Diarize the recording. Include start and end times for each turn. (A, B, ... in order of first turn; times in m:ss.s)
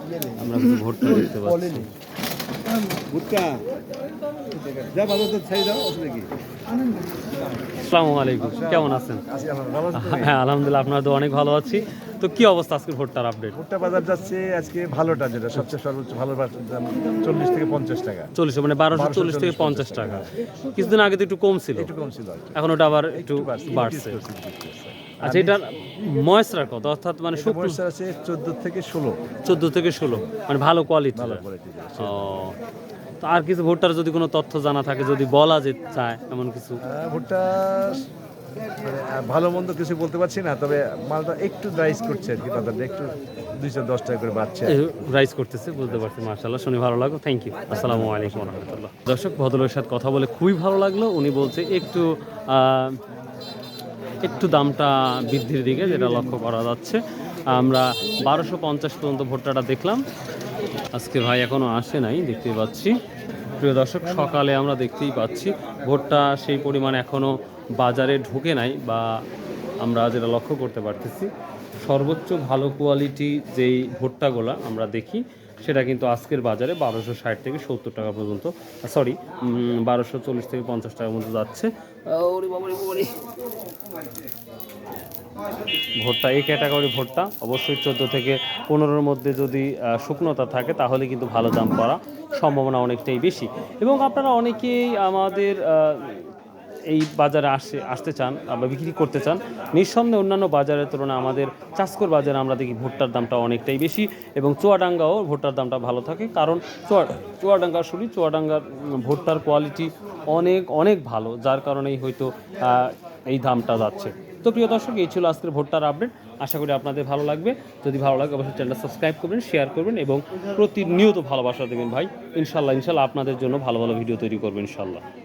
0:00.4-0:01.9 A
0:02.9-0:03.7 B
0:04.6-0:06.3 B
0:07.8-0:09.2 A
0:08.4-0:10.4 B
0:09.9-0:13.6 A
0:13.6-0:18.3 B
0:18.4-0:21.9 A
0:18.9-0:20.3 B
0:21.8-0:22.6 B
0:22.6-0:24.2 A
0:23.1-0:25.6 B
0:25.2-0:27.8 A
0:27.3-0:29.3 B
0:29.4-0:31.4 A
0:31.1-0:32.5 B
0:32.0-0:32.6 A
0:33.2-0:36.8 A
0:36.8-0:38.0 B
0:38.8-0:45.2 B
0:44.7-0:53.0 A
0:45.8-0:46.1 B
0:47.7-0:48.8 B
0:54.2-1:00.0 A
1:00.9-1:03.0 A
1:03.6-1:09.1 A
1:09.8-1:11.3 A
1:11.8-1:23.2 A
1:26.0-1:36.3 A
1:36.9-2:05.0 A